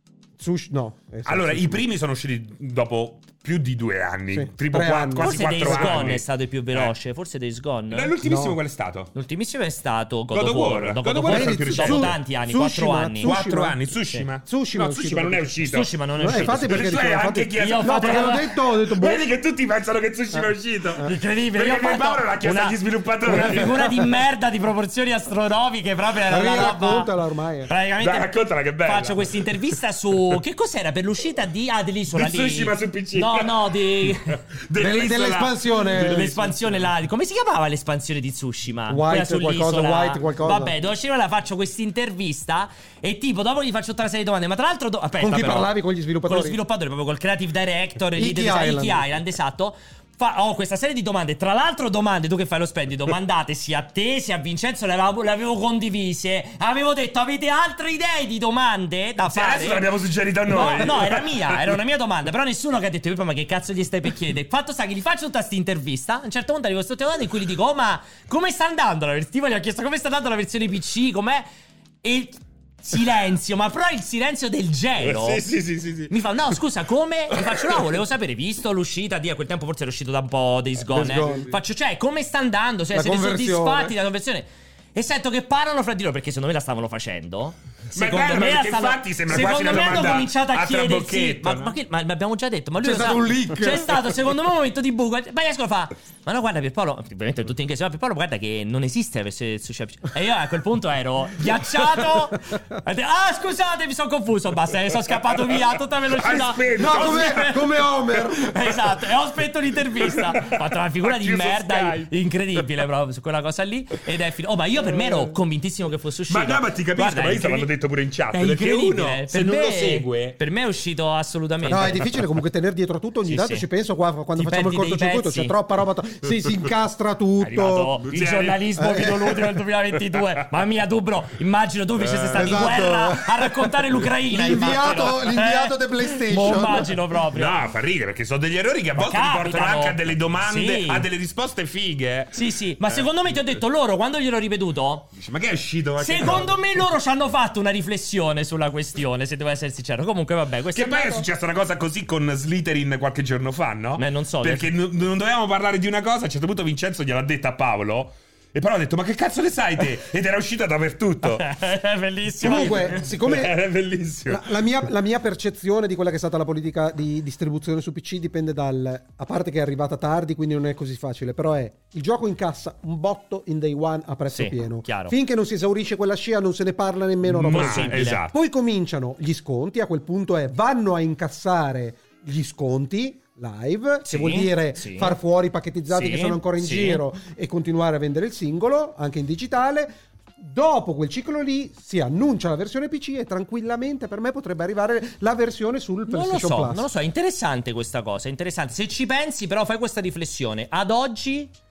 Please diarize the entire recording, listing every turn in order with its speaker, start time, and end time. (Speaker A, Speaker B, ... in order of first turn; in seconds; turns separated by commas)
Speaker A: 0.4-1.8, Speaker B: 1.2-6.9, Speaker A: 4.3-6.2, Speaker C: 5.2-8.1, Speaker B: 7.9-9.1, Speaker A: 8.2-8.6, Speaker C: 9.1-13.4, Speaker B: 10.3-12.2, Speaker A: 11.2-13.8, Speaker B: 13.2-24.0, Speaker A: 14.4-15.5, Speaker C: 15.6-17.0, Speaker A: 16.2-19.3, Speaker C: 17.6-18.5, Speaker C: 21.0-27.1, Speaker A: 26.3-27.7, Speaker C: 27.7-28.3, Speaker B: 28.0-29.5, Speaker C: 28.8-34.4, Speaker B: 32.1-36.9, Speaker A: 34.8-36.4, Speaker C: 36.0-45.7, Speaker A: 38.9-40.7, Speaker A: 45.2-46.6, Speaker C: 46.2-59.9, Speaker A: 48.2-49.1, Speaker B: 59.3-61.8, Speaker C: 60.5-71.5, Speaker C: 72.0-75.5, Speaker B: 75.0-76.1, Speaker C: 76.1-107.6, Speaker B: 77.4-77.8, Speaker A: 80.9-81.5, Speaker A: 82.9-83.9, Speaker B: 87.9-91.8, Speaker A: 92.8-93.9, Speaker B: 106.1-108.2, Speaker A: 106.8-108.5, Speaker C: 108.4-117.7, Speaker B: 110.4-112.1, Speaker B: 116.3-120.4, Speaker C: 118.3-122.2, Speaker A: 121.7-127.9, Speaker C: 123.3-123.7, Speaker C: 124.3-125.6, Speaker C: 127.4-137.6, Speaker B: 128.1-128.6, Speaker A: 128.8-129.3, Speaker B: 132.0-132.9, Speaker A: 132.3-133.7, Speaker A: 134.3-136.9, Speaker B: 137.3-142.3, Speaker C: 139.0-141.1, Speaker C: 142.3-145.1, Speaker B: 142.9-143.6, Speaker B: 145.2-146.8, Speaker C: 146.0-151.2, Speaker B: 150.7-161.5, Speaker C: 154.0-154.7, Speaker C: 161.2-163.0, Speaker B: 162.4-164.6, Speaker A: 162.4-163.6, Speaker A: 164.3-196.9, Speaker C: 174.3-175.2, Speaker B: 177.3-178.3, Speaker C: 177.4-178.2, Speaker C: 184.0-185.2, Speaker C: 185.9-187.0, Speaker C: 196.1-201.5